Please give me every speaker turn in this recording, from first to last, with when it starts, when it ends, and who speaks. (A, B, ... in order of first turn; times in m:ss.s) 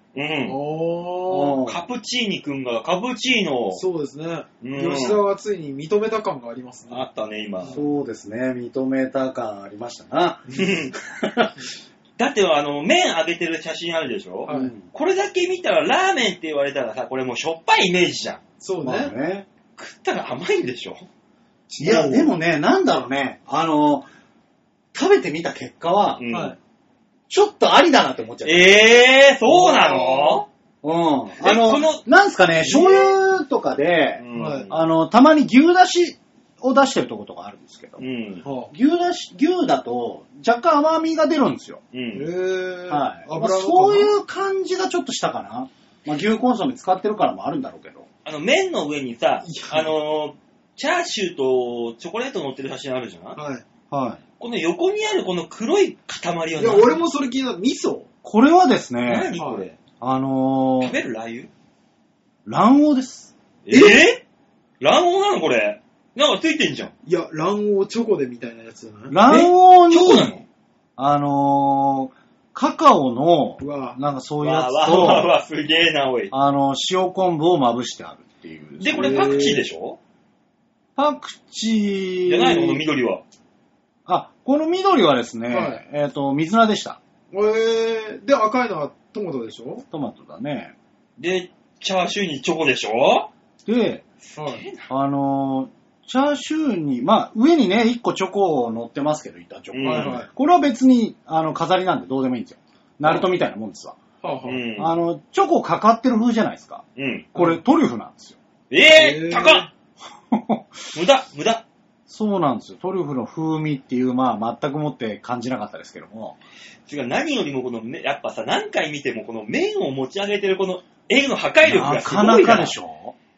0:00.1-0:00.6 A
0:00.4-0:01.6 B
0:01.3-0:01.9 C
0:01.6-0:03.8 A
0:03.7-0:07.1 B
0:04.6-0:05.2 A
0:06.9-0:07.8 A
0:07.7-0:11.5 C
0:10.5-0:10.9 A
0:12.2-0:18.4 A
0:14.5-0:14.7 B
0:14.5-0:14.9 C
0:18.6-0:19.1 B
0:18.8-0:19.5 C
0:19.8-0:21.1 A
0:21.7-0:22.1 B
0:21.8-0:24.1 C
0:21.8-0:22.3 A
0:24.9-0:26.2 C
0:26.2-0:26.6 A
0:26.3-0:26.6 B
0:27.3-0:29.0 C
0:28.4-0:30.5 A
0:29.5-0:30.4 B
0:30.8-0:38.0 C
0:31.4-0:32.0 A
0:34.2-0:34.8 A
0:34.3-0:34.7 B
0:38.0-0:38.4 A
0:38.4-0:38.7 B
0:38.7-0:41.8 C
0:41.9-0:42.3 A
0:42.1-0:44.1 B
0:42.9-0:48.1 C
0:48.2-0:53.4 A
0:49.4-0:49.9 B
0:53.3-0:53.6 B
0:53.9-0:54.2 C
0:54.4-0:57.0 A
0:56.6-0:58.1 B
0:58.2-0:59.3 C
0:59.0-0:59.8 A
0:59.4-0:59.6 B
1:00.0-1:01.0 C
1:00.8-1:01.5 A
1:02.4-1:03.3 C
1:03.6-1:04.2 A
1:03.7-1:04.1 B
1:04.8-1:06.9 A
1:07.0-1:09.2 B
1:09.1-1:10.3 C
1:09.3-1:10.4 A
1:11.0-1:15.3 C
1:13.6-1:14.0 B
1:14.4-1:16.3 A
1:16.3-1:19.4 C
1:18.8-1:20.0 A
1:18.9-1:19.6 B
1:21.0-1:22.8 C
1:22.2-1:23.2 A
1:24.0-1:27.0 C
1:25.5-1:25.8 B
1:27.3-1:29.8 B
1:29.9-1:30.7 C
1:31.2-1:33.3 A
1:33.6-1:34.0 C
1:34.3-1:34.9 A
1:34.4-1:34.6 B
1:34.9-1:44.0 C
1:39.7-1:40.2 A
1:39.8-1:40.3 B
1:44.2-1:44.6 B
1:44.4-1:44.9 A
1:44.8-1:48.4 C
1:47.0-1:47.3 A
1:48.7-1:49.7 A
1:48.9-1:49.7 B
1:50.3-1:50.7 C
1:50.9-1:51.6 A
1:52.1-1:56.4 C
1:56.9-2:02.7 A
2:01.6-2:03.1 C